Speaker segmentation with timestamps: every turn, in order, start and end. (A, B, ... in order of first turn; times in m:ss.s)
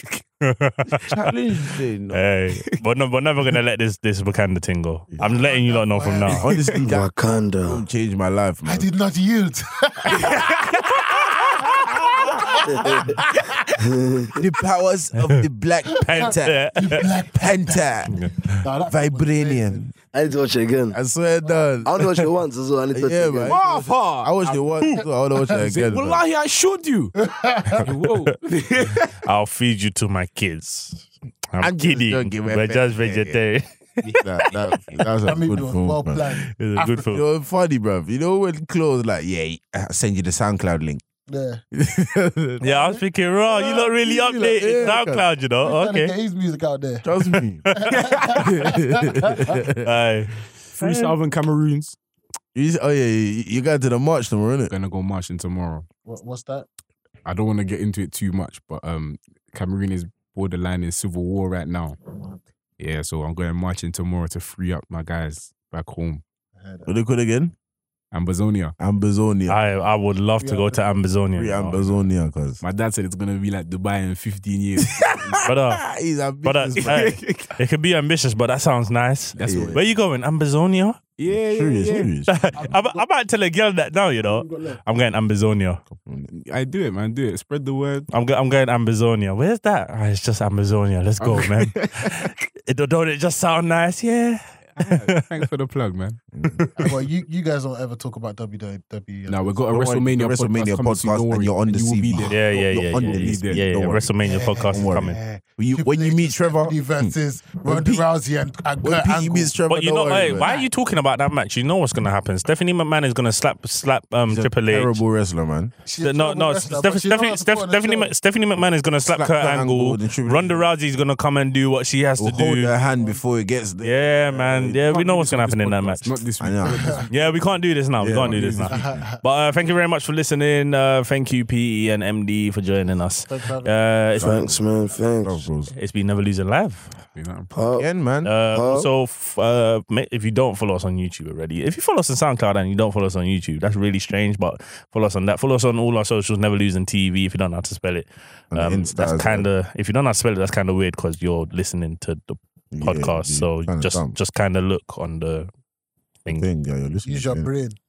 0:00.4-0:01.2 A
0:01.1-0:02.2 B
0:02.1-0:06.4 A
0:05.2-0:06.5 C
0:06.3-0:08.9 B
0:06.4-0:06.8 D
0:06.8-0:07.8 E
0:08.7-0:10.7 C
0:10.1-0:11.7 D
0:11.6-0:13.7 C
0:12.7-0:13.1 E
0:13.8-0:14.4 E
0:14.4-0:16.6 B
0:15.2-0:15.4 A
0:15.9-0:18.1 C
0:16.0-0:17.1 A
0:17.3-0:18.1 B
0:18.1-0:18.6 A
0:18.6-0:19.9 C
0:18.9-0:19.9 B
0:20.1-0:21.0 E
0:20.9-0:22.3 B
0:21.4-0:21.7 C
0:21.8-0:23.6 E
0:22.9-0:26.2 B
0:23.5-0:24.5 D
0:24.6-0:25.0 C
0:25.6-0:27.1 D
0:27.2-0:27.9 C
0:27.8-0:29.1 D
0:29.2-0:35.1 A
0:31.6-0:33.4 B
0:34.1-0:36.2 B
0:35.2-0:37.1 C
0:36.4-0:37.2 A
0:37.0-0:41.0 B
0:41.3-0:41.6 C
0:41.7-0:42.6 B
0:42.6-0:46.2 A
0:42.6-0:45.0 C
0:44.3-0:45.2 B
0:45.6-0:47.1 C
0:47.0-0:49.9 B
0:47.3-0:47.9 A
0:47.7-0:49.6 C
0:48.0-0:48.6 D
0:49.8-0:51.2 A
0:50.7-0:52.0 D
0:52.6-0:54.7 B
0:54.7-0:55.9 D
0:56.1-0:56.7 C
0:57.2-1:02.0 D
1:02.2-1:02.4 C
1:02.8-1:06.2 D
1:06.6-1:06.9 C
1:06.9-1:07.5 B
1:08.1-1:08.8 D
1:08.8-1:09.6 B
1:09.5-1:11.8 A
1:10.4-1:10.9 C
1:11.4-1:12.6 B
1:12.6-1:15.4 D
1:14.9-1:17.1 B
1:15.4-1:15.9 A
1:16.4-1:21.0 A
1:16.8-1:17.6 D
1:19.4-1:19.9 D
1:19.4-1:19.8 B
1:21.2-1:22.1 D
1:21.4-1:22.3 B
1:22.3-1:25.8 A
1:22.5-1:23.1 C
1:24.2-1:24.8 C
1:25.9-1:26.3 B
1:26.3-1:28.1 D
1:28.1-1:35.4 A
1:31.2-1:32.3 D
1:34.8-1:36.2 D
1:36.3-1:36.7 B
1:36.4-1:36.9 A
1:36.8-1:39.7 C
1:39.3-1:43.6 D
1:39.7-1:44.1 B
1:42.2-1:45.2 A
1:44.2-1:49.5 C
1:44.7-1:48.0 B
1:48.8-1:50.5 B
1:49.7-1:55.0 A
1:50.4-1:50.7 C
1:54.3-1:55.7 B
1:55.8-1:58.1 C
1:56.0-2:02.8 A
1:59.1-2:00.7 B
2:02.2-2:04.8 B
2:03.8-2:06.2 A
2:04.6-2:07.4 D
2:06.4-2:07.1 B
2:06.7-2:07.0 C
2:07.1-2:14.5 A
2:08.0-2:09.0 B
2:08.2-2:08.7 D
2:08.7-2:09.2 C
2:13.3-2:13.7 C
2:14.2-2:14.6 B
2:14.2-2:15.4 E
2:15.2-2:15.7 B
2:15.7-2:16.9 A
2:17.1-2:17.5 D
2:17.5-2:17.9 E
2:17.8-2:18.3 B
2:18.2-2:35.5 A
2:18.5-2:18.9 E
2:28.5-2:29.5 B
2:32.7-2:34.2 B
2:36.3-2:37.5 B
2:37.0-2:37.8 C